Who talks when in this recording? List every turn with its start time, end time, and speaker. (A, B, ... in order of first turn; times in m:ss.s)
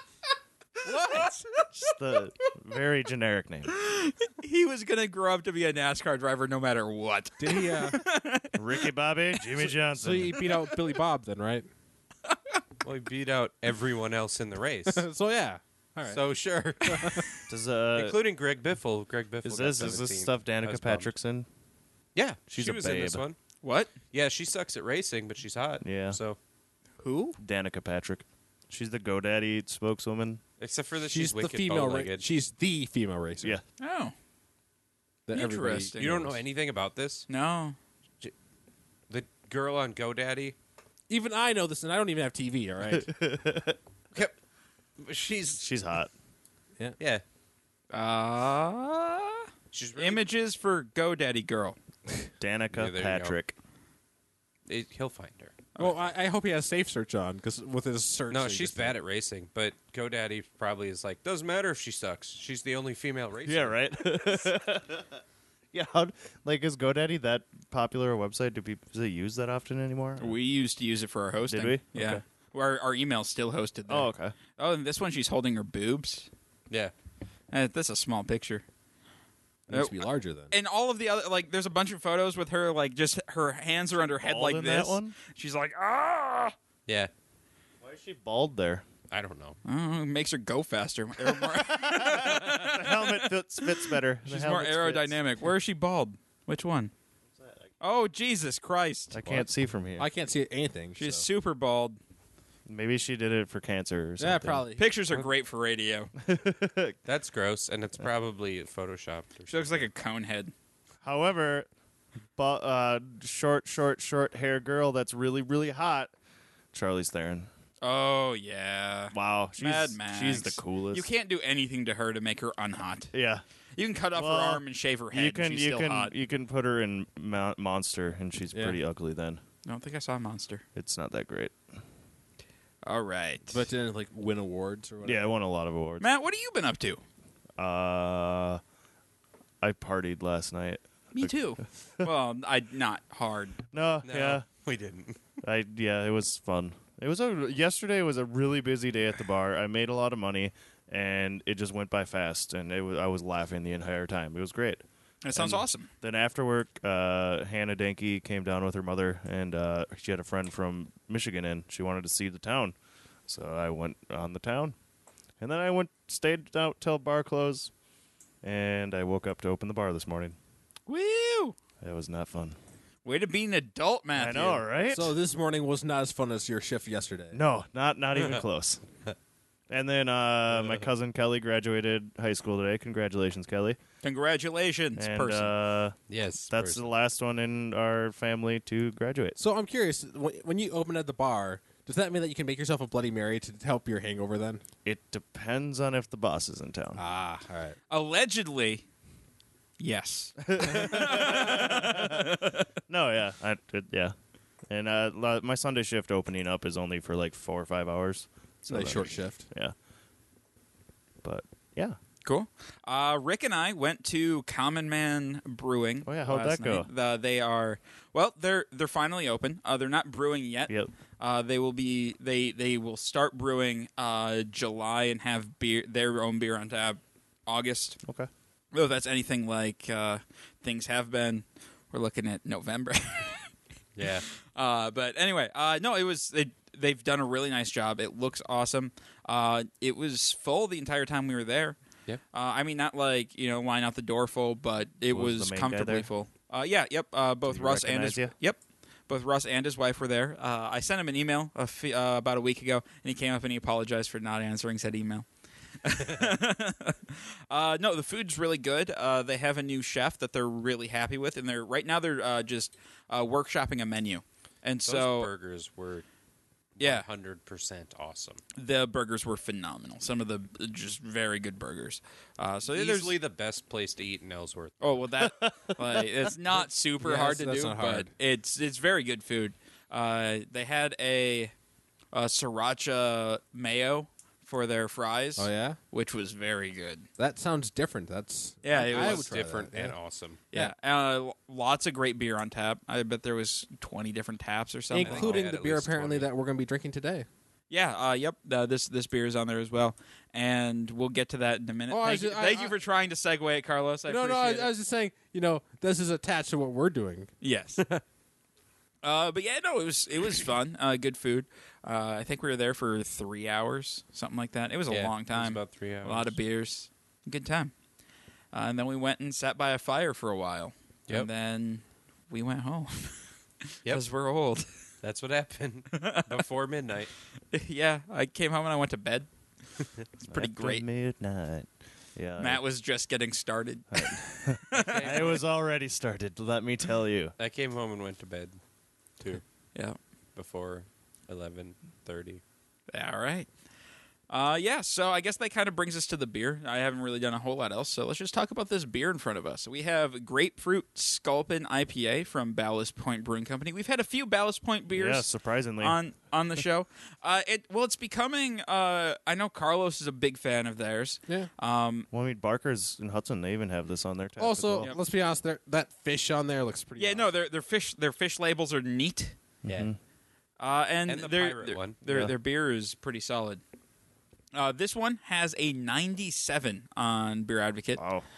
0:00.8-0:01.4 A
0:01.7-0:03.7 B
0:03.7-0:08.8 C
0:07.4-0:08.0 D
0:08.5-0:10.4 B
0:09.6-0:11.7 D
0:10.4-0:10.7 C
0:12.3-0:12.6 C
0:12.8-0:15.0 A
0:14.9-0:16.2 D
0:16.1-0:17.2 A
0:16.8-0:17.2 D
0:17.5-0:18.2 B
0:17.9-0:21.1 A
0:19.4-0:21.4 B
0:22.1-0:23.4 A
0:22.5-0:23.2 B
0:23.6-0:23.9 C
0:24.1-0:26.4 A
0:25.8-0:26.2 B
0:27.0-0:27.4 C
0:27.4-0:30.4 B
0:30.6-0:32.3 A
0:31.1-0:33.6 D
0:33.8-0:34.1 C
0:35.3-0:36.4 D
0:35.3-0:36.3 C
0:36.0-0:37.3 A
0:37.3-0:37.8 C
0:39.1-0:40.5 A
0:41.1-0:43.1 D
0:42.9-0:43.8 B
0:45.0-0:45.6 A
0:45.6-0:46.1 B
0:47.9-0:51.8 C
0:49.7-0:50.2 A
0:52.4-0:53.5 B
0:52.7-0:53.4 A
0:54.7-0:55.6 A
0:55.8-0:59.0 D
0:58.3-1:03.8 A
1:03.4-1:05.2 B
1:05.7-1:10.3 B
1:10.2-1:16.3 C
1:11.5-1:12.2 B
1:13.9-1:14.3 B
1:17.5-1:18.6 C
1:19.7-1:20.5 D
1:19.7-1:26.5 C
1:24.2-1:25.1 B
1:27.8-1:28.8 B
1:29.1-1:29.6 A
1:29.6-1:36.9 C
1:31.2-1:35.2 B
1:37.4-1:37.6 B
1:37.8-1:39.2 C
1:39.1-1:40.1 B
1:40.0-1:41.2 D
1:41.0-1:42.0 C
1:42.7-1:44.6 B
1:44.2-1:44.8 D
1:44.8-1:46.1 C
1:46.2-1:47.0 B
1:47.0-1:49.8 A
1:49.5-1:50.5 C
1:51.0-1:51.7 B
1:52.4-1:56.1 B
1:56.7-1:57.5 B
1:57.8-2:03.1 C
1:59.1-2:01.1 B
2:03.1-2:03.4 B
2:03.8-2:06.1 C
2:04.1-2:09.4 B
2:09.6-2:10.6 C
2:10.7-2:11.6 B
2:12.8-2:13.6 C
2:13.5-2:15.2 D
2:15.0-2:16.0 B
2:16.0-2:17.0 C
2:17.6-2:18.6 B
2:19.6-2:21.3 B
2:21.1-2:23.6 C
2:23.7-2:24.4 B
2:24.0-2:25.2 A
2:25.4-2:34.8 B
2:35.2-2:35.9 C
2:35.3-2:42.7 B
2:43.3-2:44.7 B
2:45.4-2:47.7 B
2:48.4-2:50.4 B
2:50.9-2:51.5 C
2:51.8-2:52.6 B
2:53.0-2:54.6 C
2:54.1-2:55.1 B
2:54.9-2:57.4 D
2:57.3-2:58.8 B
2:59.7-3:03.8 B
3:04.0-3:05.5 C
3:05.0-3:06.0 B
3:06.1-3:06.8 A
3:06.5-3:09.4 B
3:09.4-3:14.6 D
3:14.8-3:17.0 B
3:17.0-3:17.8 D
3:17.9-3:18.8 C
3:19.8-3:22.6 C
3:20.4-3:24.1 B
3:24.7-3:29.7 B
3:28.7-3:29.4 D
3:31.2-3:32.0 B
3:32.2-3:48.0 C
3:36.0-3:36.9 B
3:48.0-3:48.3 B
3:48.7-3:53.5 C
3:54.0-3:54.2 A
3:54.4-4:01.8 C
4:02.3-4:15.2 C
4:05.1-4:06.1 B
4:07.5-4:08.3 B
4:15.8-4:25.3 C
4:24.8-4:26.0 A
4:26.8-4:28.4 A
4:26.8-4:27.0 C
4:28.6-4:33.1 C
4:32.7-4:34.8 A
4:34.8-4:41.5 C
4:35.2-4:36.3 B
4:37.0-4:38.1 D
4:42.1-4:47.1 C
4:45.4-4:45.8 D
4:47.2-4:50.0 D
4:48.6-4:49.3 C
4:48.8-4:50.4 A
4:50.5-4:55.4 C
4:54.9-4:57.3 D
4:55.0-4:56.3 A
4:57.7-5:04.7 C
5:01.9-5:02.7 D
5:04.1-5:07.3 D
5:07.4-5:07.8 C
5:09.0-5:17.7 C
5:14.9-5:16.4 A
5:18.5-5:23.2 C
5:23.8-5:24.7 C
5:25.0-5:27.1 A
5:25.9-5:26.4 C
5:27.5-5:29.3 C
5:30.2-5:32.6 B
5:30.3-5:30.8 C
5:32.4-5:35.1 C
5:33.9-5:37.3 B
5:34.7-5:35.4 A
5:37.4-5:38.6 A
5:40.3-5:42.4 A
5:42.9-5:43.5 C
5:44.3-6:02.1 C
5:54.9-5:56.0 B
6:02.1-6:04.9 B
6:04.4-6:07.3 D
6:07.0-6:09.4 C
6:09.6-6:10.0 B
6:10.6-6:13.6 C
6:11.1-6:12.0 A
6:12.1-6:12.3 B
6:14.5-6:18.0 C
6:18.0-6:18.2 B